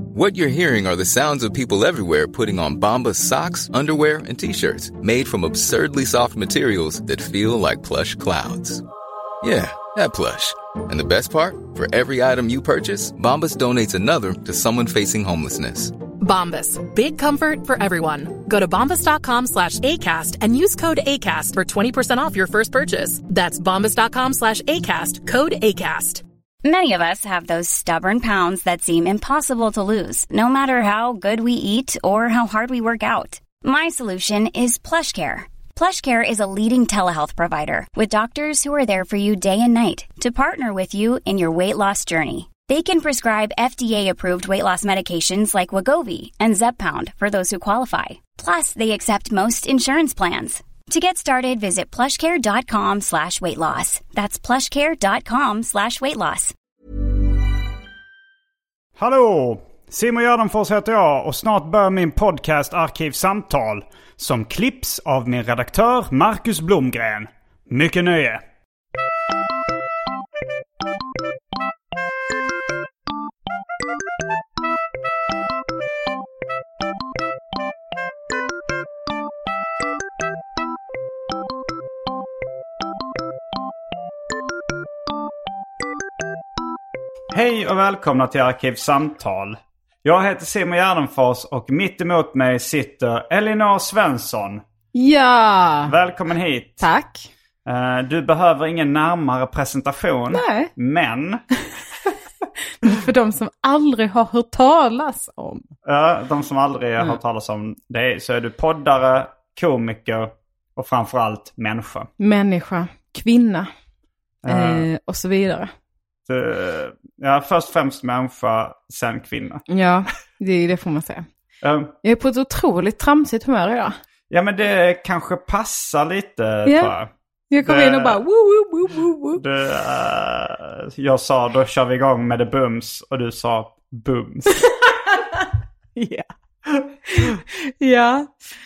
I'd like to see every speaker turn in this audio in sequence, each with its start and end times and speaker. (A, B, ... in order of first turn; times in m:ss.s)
0:00.1-0:08.8 A
0:09.4-0:16.0 A
0:16.2-0:26.2 B
0:26.6-0:56.5 C
0:59.0-1:08.4 D
1:27.3-1:34.6 D
1:34.9-1:35.9 E
1:35.9-1:36.9 D
1:36.8-1:37.3 E
1:37.6-1:41.4 D
1:40.3-1:40.7 E
1:42.8-1:45.7 E
1:45.8-1:52.1 D
1:52.2-1:53.7 E
1:54.4-1:54.9 D
1:54.4-1:55.7 E
1:56.3-1:59.6 D
1:59.7-2:01.3 E
2:01.6-2:01.9 D
2:02.0-2:04.0 E
2:04.3-2:07.1 D
2:06.7-2:06.9 E
2:07.5-2:09.4 E
2:07.6-2:08.2 D
2:09.4-2:14.7 D
2:14.8-2:15.2 E
2:16.0-2:16.3 E
2:17.0-2:18.3 E